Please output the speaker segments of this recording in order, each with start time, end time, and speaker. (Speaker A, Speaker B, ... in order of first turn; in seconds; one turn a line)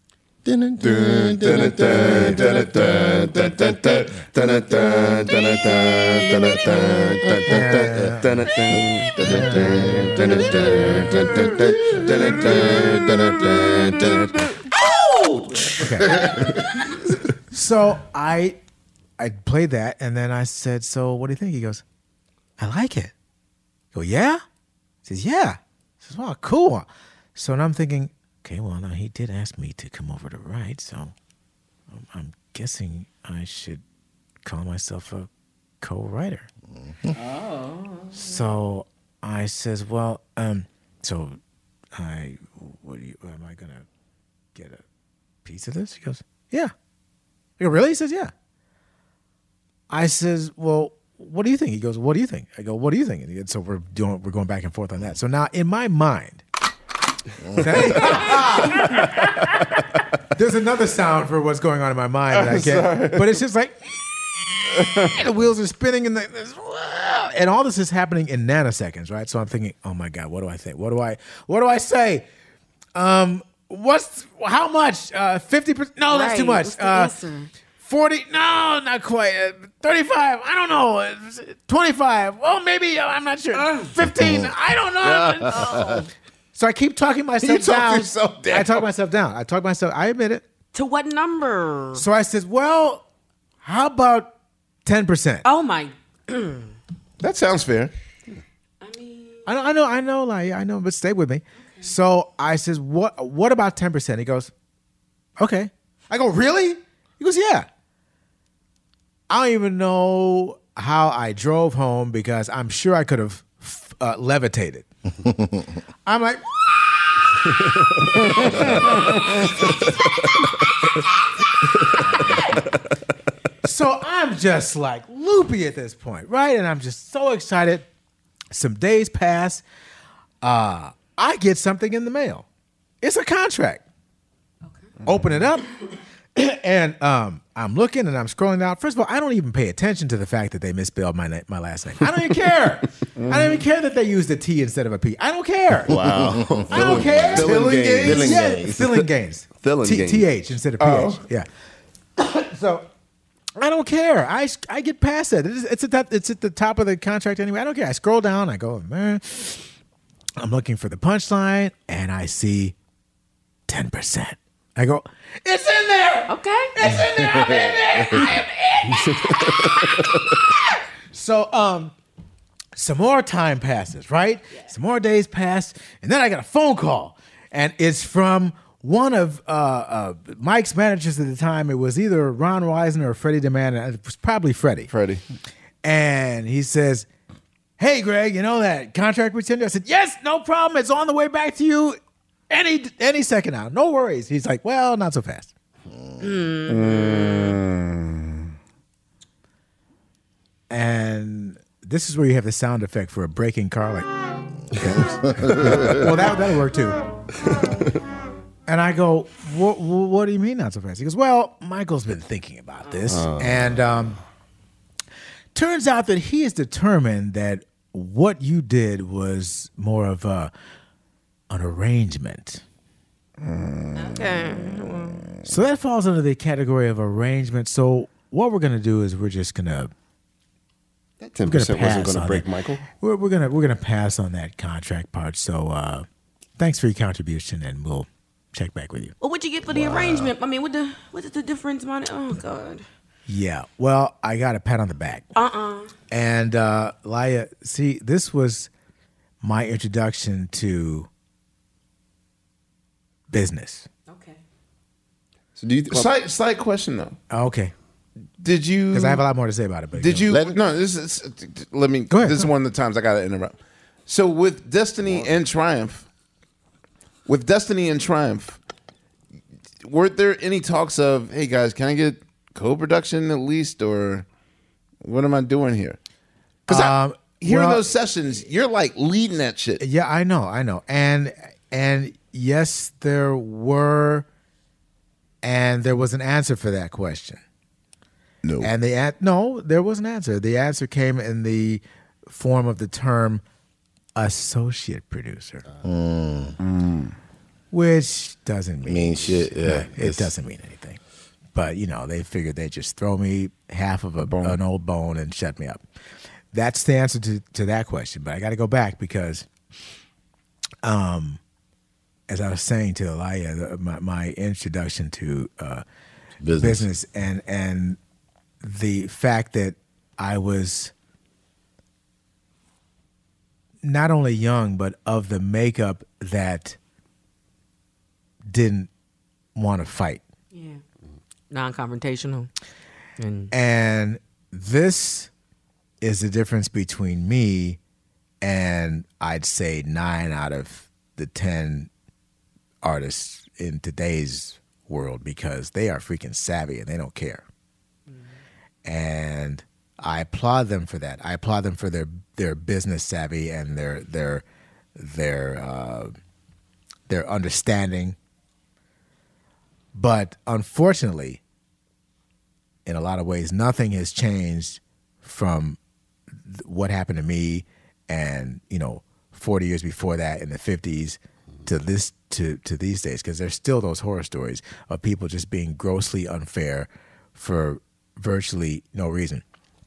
Speaker A: 0.4-4.1
Speaker B: 0.8-14.2
Speaker C: 1.3-3.9
Speaker A: 7.3-8.1
Speaker D: 7.5-8.4
Speaker A: 9.1-14.1
Speaker D: 9.2-12.3
Speaker C: 12.0-13.0
Speaker E: 14.9-15.7
Speaker D: 15.8-16.2
Speaker D: 17.5-18.6
Speaker D: 19.2-21.8
Speaker D: 22.6-23.1
Speaker D: 23.9-24.4
Speaker D: 25.0-31.1
Speaker D: 31.9-33.8
Speaker D: 34.4-35.3
Speaker D: 35.8-36.5
Speaker A: 36.8-37.1
Speaker D: 38.1-41.4
Speaker D: 42.0-43.9
Speaker D: 44.5-44.8
Speaker D: 45.4-46.7
Speaker D: 47.6-48.3
Speaker D: 49.9-56.4
Speaker D: 57.5-59.4
Speaker D: 60.3-63.9
Speaker C: 62.3-63.3
Speaker C: 64.7-65.2
Speaker D: 64.8-72.2
Speaker D: 72.9-77.1
Speaker E: 76.1-77.5
Speaker D: 77.8-85.9
Speaker E: 83.6-83.9
Speaker E: 85.5-86.0
Speaker D: 86.5-90.4
Speaker C: 87.4-88.8
Speaker E: 90.7-92.0
Speaker D: 91.9-93.0
Speaker D: 93.6-94.3
Speaker D: 94.8-95.4
Speaker E: 95.4-96.6
Speaker C: 97.2-97.9
Speaker D: 99.4-104.5
Speaker D: 105.4-107.7
Speaker D: 109.3-114.8
Speaker D: 116.0-117.1
Speaker D: 123.6-127.8
Speaker D: 128.5-129.6
Speaker D: 130.4-132.4
Speaker D: 133.0-133.8
Speaker D: 135.0-135.7
Speaker D: 136.3-145.9
Speaker C: 143.2-143.6
Speaker B: 145.9-148.3
Speaker A: 145.9-148.9
Speaker D: 146.7-151.5
Speaker C: 147.2-148.4
Speaker B: 149.6-150.2
Speaker C: 150.8-151.2
Speaker D: 152.2-152.9
Speaker D: 153.6-159.7
Speaker D: 160.4-162.7
Speaker D: 163.7-168.4
Speaker E: 166.3-166.7
Speaker D: 171.1-171.9
Speaker D: 172.8-184.9
Speaker C: 184.9-185.2
Speaker D: 185.8-187.1
Speaker D: 187.8-192.0
Speaker D: 192.5-195.5
Speaker E: 196.2-197.6
Speaker C: 196.7-198.3
Speaker D: 200.7-204.1
Speaker D: 204.7-207.0
Speaker A: 205.3-205.9
Speaker D: 208.7-214.2
Speaker D: 215.5-220.5
Speaker D: 221.5-222.6
Speaker E: 224.0-225.2
Speaker D: 225.4-229.9
Speaker B: 231.2-232.8
Speaker D: 231.4-236.1
Speaker D: 236.6-239.1
Speaker E: 239.2-242.8
Speaker D: 243.3-245.3
Speaker E: 245.3-245.9
Speaker D: 246.1-248.7
Speaker D: 249.4-251.1
Speaker D: 253.3-253.9
Speaker E: 254.1-254.4
Speaker B: 255.6-256.1
Speaker C: 255.9-257.2
Speaker D: 257.3-257.7
Speaker C: 258.4-259.2
Speaker D: 258.9-260.3
Speaker C: 259.9-263.6
Speaker A: 260.3-260.6
Speaker D: 262.1-262.5
Speaker C: 264.1-266.1
Speaker C: 267.2-268.6
Speaker C: 269.8-274.2
Speaker C: 275.0-276.0
Speaker D: 276.7-277.8
Speaker C: 276.7-279.8
Speaker D: 279.8-284.2
Speaker D: 285.4-287.4
Speaker C: 288.4-288.7
Speaker D: 288.6-293.4
Speaker D: 294.1-295.6
Speaker A: 295.8-296.6
Speaker C: 296.6-297.1
Speaker D: 297.7-301.0
Speaker A: 298.9-300.3
Speaker D: 301.5-305.8
Speaker C: 304.3-304.6
Speaker D: 306.5-309.4
Speaker D: 310.8-311.4
Speaker D: 312.3-315.8
Speaker A: 316.4-316.9
Speaker D: 316.6-318.0
Speaker D: 318.6-320.9
Speaker D: 323.8-326.8
Speaker D: 328.5-328.9
Speaker D: 329.6-330.2
Speaker E: 330.5-330.8
Speaker E: 331.5-332.5
Speaker E: 333.2-333.5
Speaker D: 333.5-335.3
Speaker D: 336.0-337.8
Speaker D: 338.4-341.9
Speaker D: 342.8-347.4
Speaker D: 348.8-354.4
Speaker D: 354.9-356.1
Speaker D: 357.1-358.1
Speaker D: 359.9-361.4
Speaker D: 362.9-365.8
Speaker D: 366.4-379.4